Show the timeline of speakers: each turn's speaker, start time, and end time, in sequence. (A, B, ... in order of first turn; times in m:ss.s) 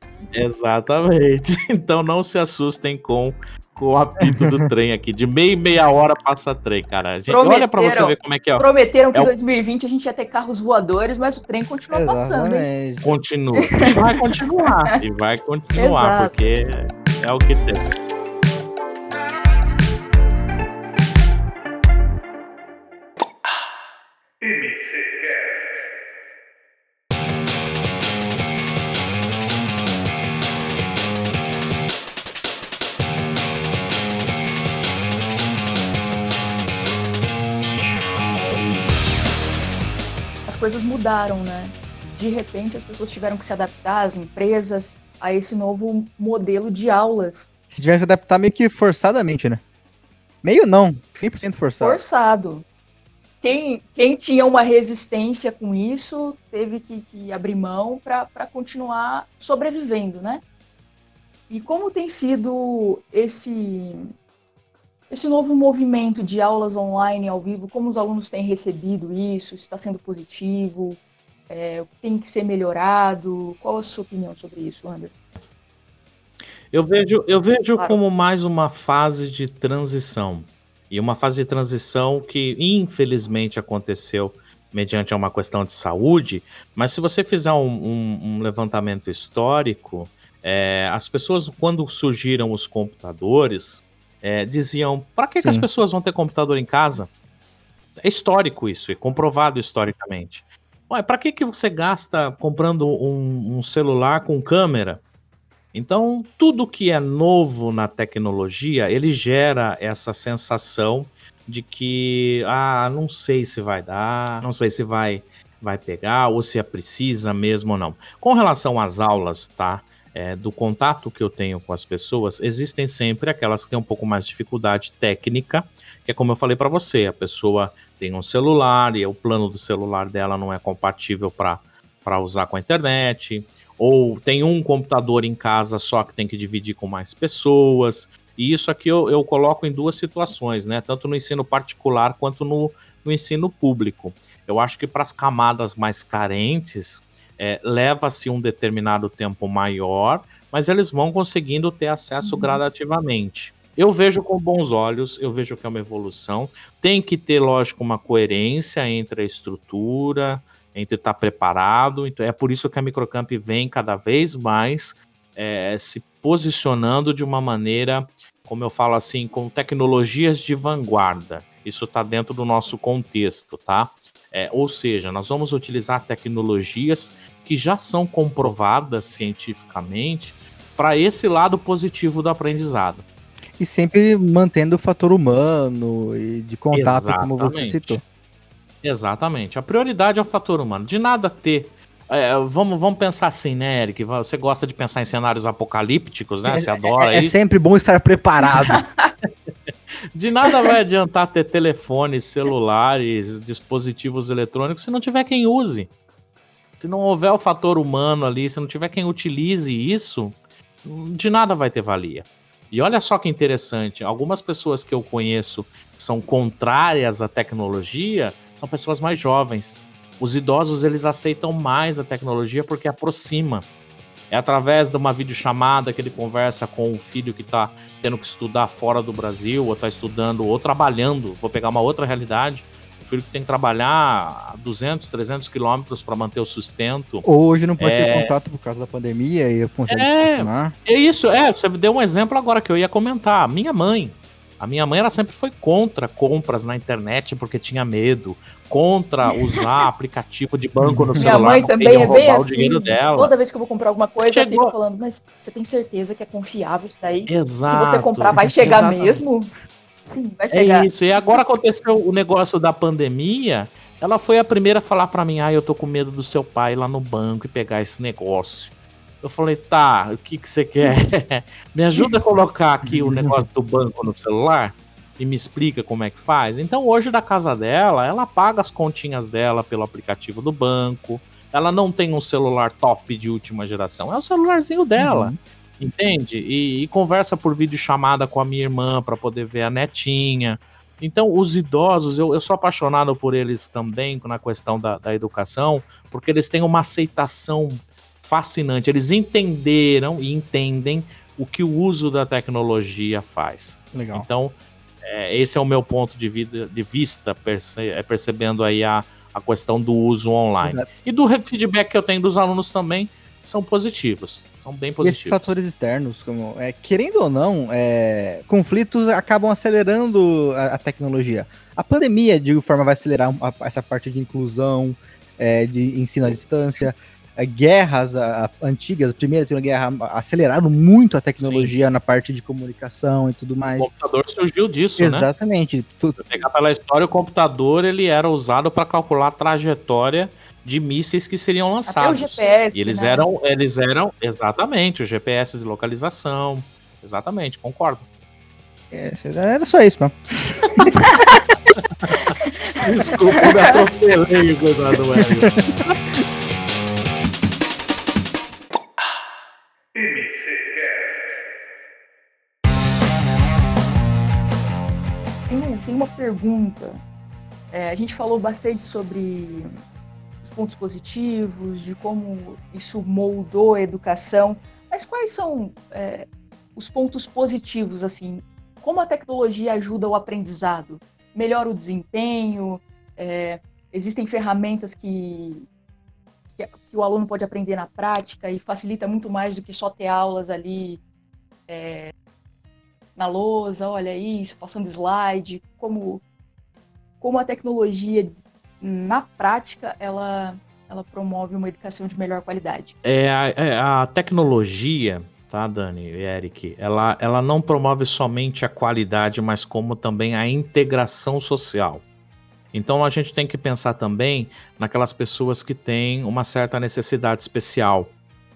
0:00.3-0:09.3 A
0:04.2-0:04.6 B
0:07.3-0:12.7 C
0:11.9-0:13.1 B
0:13.0-0:17.9 A
0:13.6-0:14.2 C
0:15.8-0:16.5 C
0:40.5-0:47.5 C
0:47.7-0:49.6 B
0:50.4-0:52.0 B
0:51.8-0:52.7 C
0:53.4-1:00.4 C
1:01.5-1:04.1 C
1:05.1-1:15.1 C
1:16.7-1:37.1 A
1:38.0-1:45.0 A
1:45.7-3:03.0 A
2:32.2-2:32.6 C
3:03.6-3:08.0 B
3:06.7-3:08.0 A
3:08.8-3:17.3 A
3:16.5-3:18.8 B
3:18.6-3:19.1 C
3:20.1-3:25.9 A
3:26.8-3:43.7 A
3:44.3-3:57.3 A
3:57.2-4:00.7 B
3:57.8-3:58.3 A
3:59.9-4:13.3 A
4:09.3-4:09.7 C
4:10.8-4:11.3 B
4:11.2-4:19.5 C
4:14.2-4:14.7 A
4:17.3-4:19.2 A
4:20.0-4:21.4 C
4:20.5-5:15.6 A
4:32.9-4:33.4 B
4:45.0-4:45.4 B
5:03.9-5:04.3 B
5:10.6-5:10.9 B
5:15.0-5:33.9 B
5:31.4-5:31.8 A
5:33.8-5:35.3 A
5:35.0-5:36.2 B
5:36.2-5:48.1 A
5:41.9-5:43.3 C
5:48.9-5:50.2 B
5:50.8-5:51.0 B
5:50.8-5:51.3 C
5:52.1-5:52.8 C
5:52.8-5:55.9 A
5:53.4-5:53.8 C
5:55.2-5:55.9 B
6:05.5-6:07.0 C
6:07.7-6:09.7 C
6:10.4-6:25.7 C
6:26.6-6:31.0 C
6:31.7-6:32.1 C
6:33.2-6:36.2 C
6:37.2-6:42.9 C
6:43.0-6:52.0 A
6:52.7-6:58.1 A